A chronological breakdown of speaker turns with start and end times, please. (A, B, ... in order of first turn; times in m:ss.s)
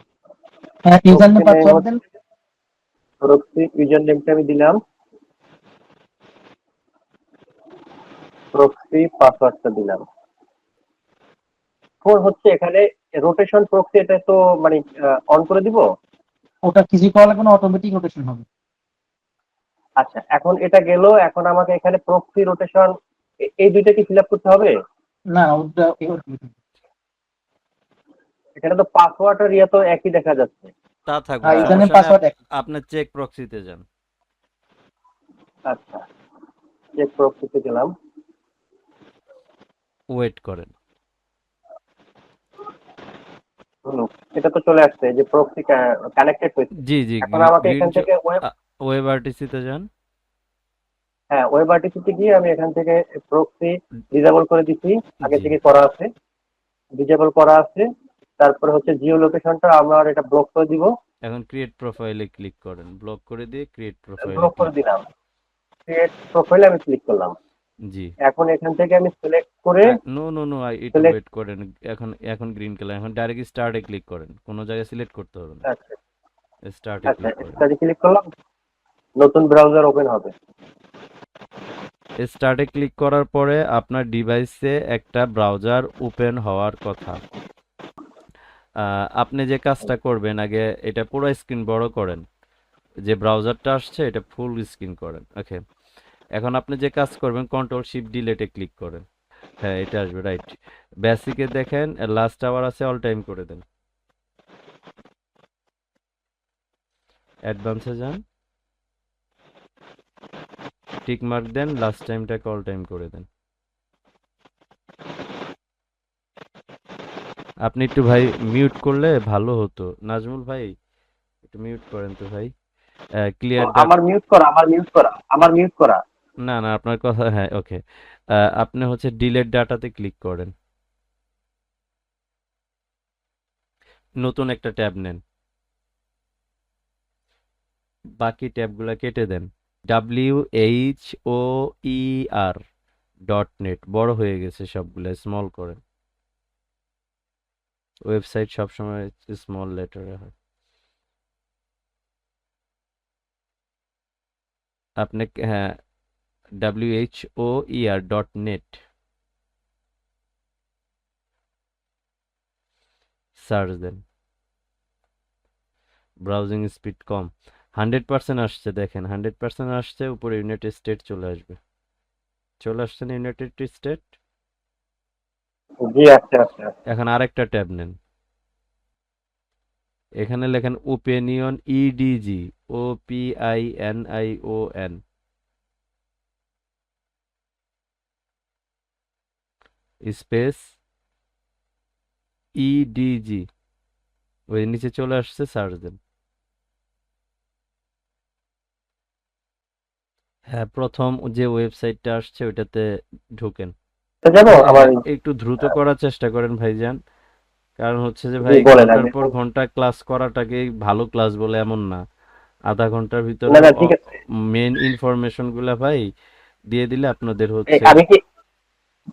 0:00.8-0:02.0 A
0:01.1-0:01.8 B
0:03.2-0:04.8 B
0:08.5-0:10.0 B
0:12.0-0:15.8 B
0:16.6-0:18.4 A
0:20.0-0:24.7 B
0:25.3-0:26.5 A
0:28.6-0:30.7 B
0:31.1-0:33.8 C
0:31.4-0:32.3 A
0:31.5-0:31.8 B
0:35.7-0:36.0 B
0:37.0-0:37.9 B
0:40.1-0:40.7 C
0:43.8-0:48.4 B
0:46.8-0:49.9 C
0:51.3-0:56.1 B
0:55.2-0:55.5 C
0:57.0-0:57.9 B
0:58.4-1:00.9 B
1:01.2-1:04.7 C
1:04.2-1:05.1 B
1:05.9-1:07.3 B
1:07.9-1:08.1 C
1:08.2-1:10.0 B
1:09.9-1:15.6 C
1:15.7-1:16.0 B
1:16.7-1:17.6 C
1:17.1-1:18.3 B
1:19.2-1:20.3 B
1:22.2-1:27.2 C
1:28.8-1:32.2 C
1:33.0-1:35.6 C
1:36.4-1:39.0 C
1:39.6-1:43.6 C
1:47.5-1:48.2 C
1:51.0-1:53.3 C
1:57.6-2:00.7 C
2:01.4-2:02.5 C
2:03.3-2:03.9 C
2:03.6-2:06.0 B
2:06.4-2:07.8 C
2:08.4-2:10.5 C
2:14.2-2:15.2 C
2:18.2-2:22.6 C
2:23.3-2:25.8 C
2:28.0-2:30.3 C
2:35.0-2:35.8 C
2:36.6-2:38.8 C
2:43.4-2:44.0 C
2:46.2-2:51.6 C
2:52.6-2:54.2 C
2:55.8-2:56.7 B
2:56.9-2:57.9 C
3:00.2-3:05.0 C
3:10.0-3:10.8 C
3:12.6-3:13.5 C
3:14.5-3:16.0 C
3:20.5-3:22.8 C
3:23.4-3:23.7 C
3:24.2-3:25.0 B
3:24.5-3:27.0 C
3:27.8-3:32.0 C
3:28.4-3:29.3 B
3:32.7-3:33.9 C
3:33.5-3:34.0 B
3:34.5-3:36.0 C
3:36.7-3:38.0 C
3:37.7-3:38.2 B